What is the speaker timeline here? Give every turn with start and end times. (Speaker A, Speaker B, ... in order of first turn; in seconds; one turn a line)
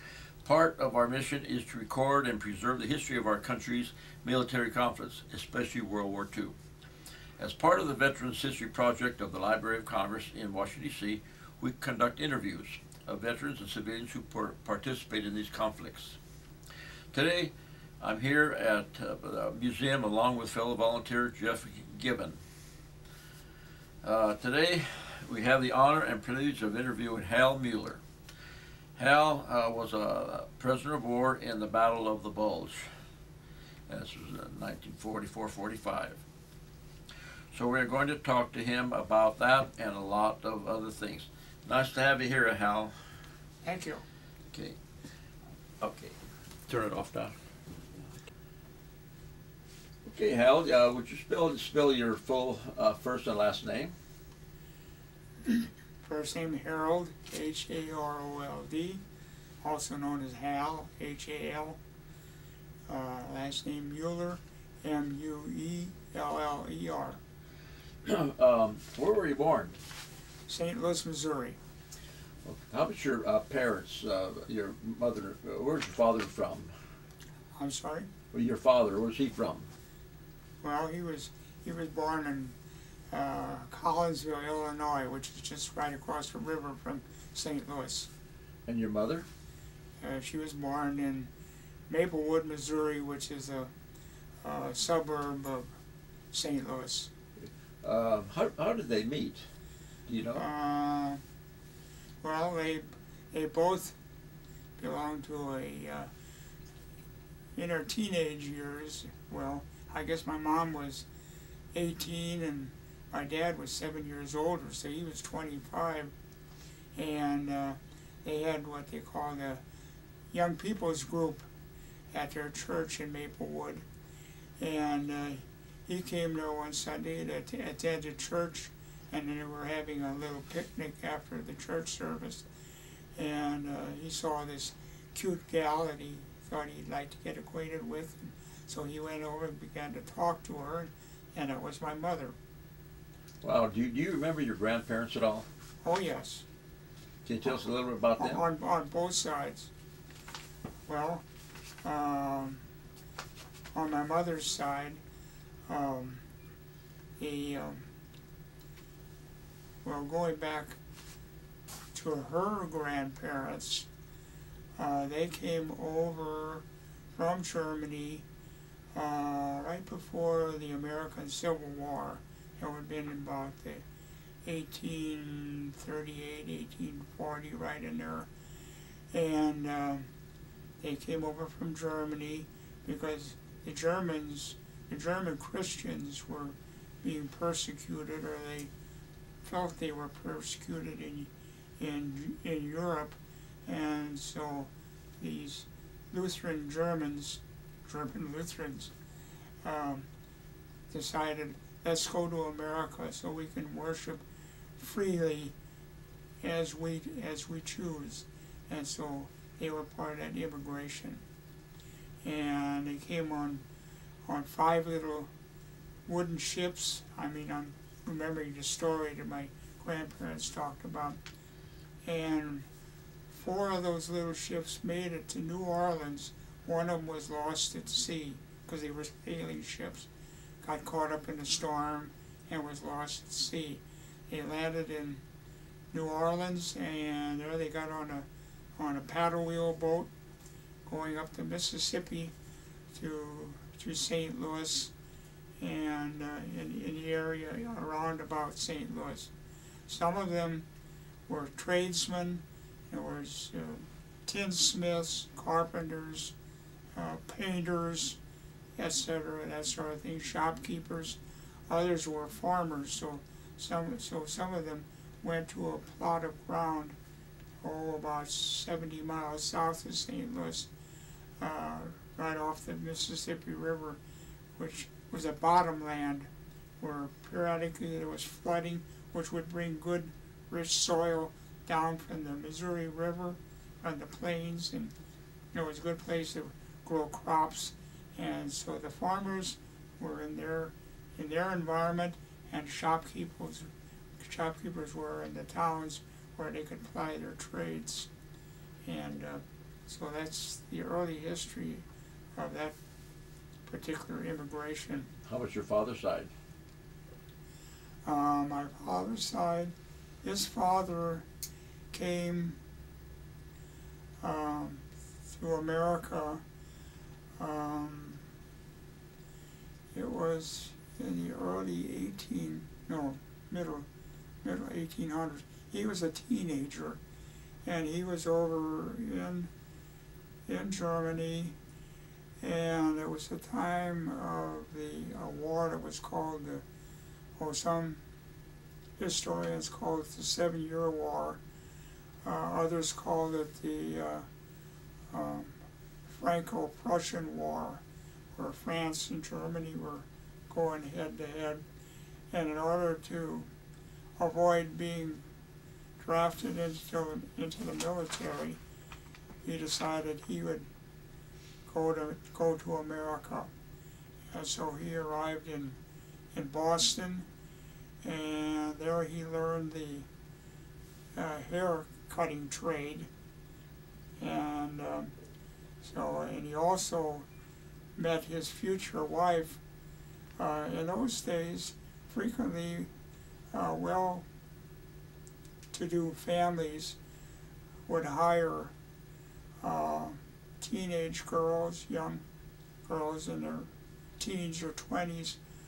Speaker A: 0.4-6.5
Speaker A: 7.4-16.2
Speaker A: 17.1-22.4
Speaker A: 24.0-28.0
Speaker A: 28.9-32.9
Speaker A: 33.9-36.2
Speaker A: 37.5-43.1
Speaker B: 43.6-44.0
Speaker A: 44.5-44.8
Speaker A: 45.8-47.4
Speaker A: 50.0-54.0
Speaker B: 55.5-59.0
Speaker B: 59.6-61.8
Speaker B: 62.9-67.2
Speaker A: 68.0-69.8
Speaker B: 70.5-71.6
Speaker A: 72.4-76.7
Speaker B: 77.5-78.1
Speaker A: 78.3-79.7
Speaker B: 80.6-82.6
Speaker B: 83.1-88.1
Speaker A: 88.7-89.3
Speaker B: 90.0-91.3
Speaker B: 91.9-93.7
Speaker B: 94.4-95.7
Speaker B: 96.3-97.1
Speaker A: 97.4-99.5
Speaker A: 100.1-100.5
Speaker B: 100.4-101.2
Speaker B: 102.2-104.0
Speaker B: 104.8-106.1
Speaker B: 107.6-111.1
Speaker B: 111.7-116.1
Speaker B: 117.0-119.6
Speaker B: 120.3-121.5
Speaker B: 122.1-123.8
Speaker B: 124.6-132.5
Speaker B: 133.2-142.3
Speaker A: 143.4-145.5
Speaker B: 145.8-146.4
Speaker A: 147.2-148.4
Speaker B: 148.2-149.7
Speaker B: 150.9-151.2
Speaker B: 151.8-152.6
Speaker B: 153.7-155.0
Speaker B: 155.7-156.2
Speaker B: 157.2-157.9
Speaker B: 159.8-160.8
Speaker B: 161.9-163.9
Speaker B: 164.8-168.2
Speaker B: 168.9-173.8
Speaker B: 174.4-178.3
Speaker B: 179.1-180.1
Speaker B: 180.8-188.7
Speaker B: 189.4-198.9
Speaker B: 199.6-200.1
Speaker B: 200.9-204.2
Speaker B: 204.8-205.6
Speaker B: 206.4-211.2
Speaker B: 212.2-213.6
Speaker B: 214.3-215.3
Speaker B: 216.1-221.2
Speaker B: 222.1-222.7
Speaker B: 223.3-230.1
Speaker B: 230.6-235.2
Speaker B: 235.9-240.1
Speaker B: 240.9-242.3
Speaker B: 242.9-244.9
Speaker B: 245.6-249.3
Speaker B: 249.9-250.7
Speaker B: 251.3-256.4
Speaker B: 257.0-258.2
Speaker B: 258.8-267.0
Speaker B: 267.6-270.7
Speaker B: 271.4-274.0
Speaker B: 274.6-276.3
Speaker B: 276.8-284.9
Speaker B: 285.5-298.1
Speaker B: 298.9-301.9
Speaker B: 302.4-302.8
Speaker B: 303.7-305.1
Speaker A: 305.2-306.3
Speaker B: 308.1-311.2
Speaker B: 311.9-312.6
Speaker B: 314.2-316.4
Speaker B: 317.4-318.2
Speaker B: 319.9-323.9
Speaker B: 324.4-327.0
Speaker B: 327.6-329.5
Speaker B: 330.5-331.6
Speaker B: 332.4-336.6
Speaker B: 337.4-338.0
Speaker B: 339.0-341.4
Speaker B: 342.2-344.3
Speaker B: 345.1-347.8
Speaker B: 348.4-351.6
Speaker B: 352.3-353.5
Speaker B: 354.2-355.2
Speaker B: 356.0-358.6
Speaker B: 359.4-360.7
Speaker B: 361.7-363.5
Speaker B: 364.3-365.8
Speaker B: 366.3-367.3
Speaker B: 368.0-370.1
Speaker B: 371.1-373.1
Speaker B: 374.2-375.1
Speaker B: 375.8-377.3
Speaker B: 378.0-379.6
Speaker B: 380.4-382.9
Speaker B: 383.5-384.3
Speaker B: 385.7-387.0
Speaker B: 387.9-388.7
Speaker B: 389.6-392.2
Speaker B: 392.9-395.4